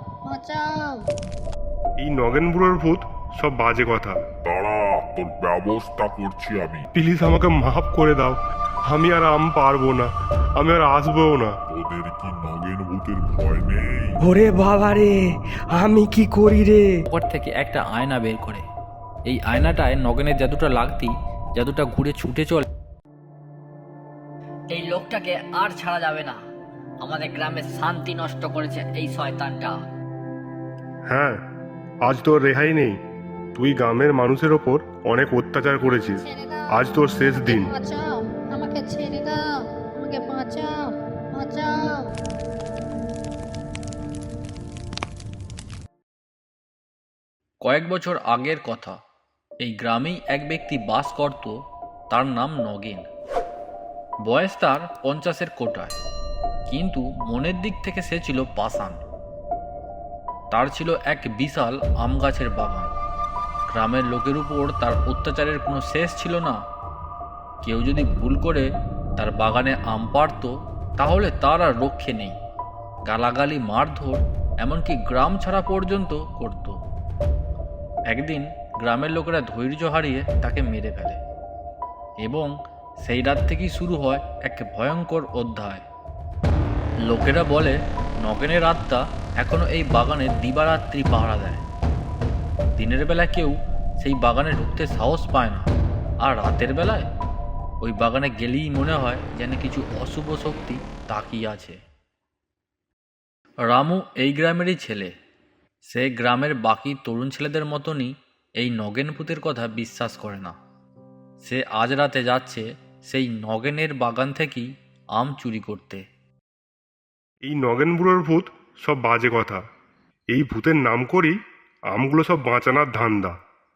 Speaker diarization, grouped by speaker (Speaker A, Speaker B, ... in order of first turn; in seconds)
Speaker A: 0.3-0.6, 38.5-39.4, 40.0-40.7, 41.4-41.7
Speaker B: 2.0-4.2, 6.9-11.6, 31.1-31.4, 32.0-33.0, 33.6-37.8, 117.5-119.6, 120.3-121.3, 121.9-123.3
Speaker C: 4.5-6.9, 11.7-14.2
Speaker D: 14.2-15.2, 15.7-16.9
Speaker E: 17.1-18.6, 19.3-22.6, 47.6-49.0, 49.6-51.6, 52.1-53.0, 54.2-56.0, 56.7-59.0, 60.5-62.9, 63.7-66.6, 67.6-72.4, 73.0-76.8, 78.1-81.2, 82.2-85.8, 87.1-91.6, 92.8-95.7, 96.2-97.0, 97.8-101.8, 103.7-105.1, 105.9-110.5, 111.4-116.0
Speaker F: 24.7-26.4, 27.0-29.8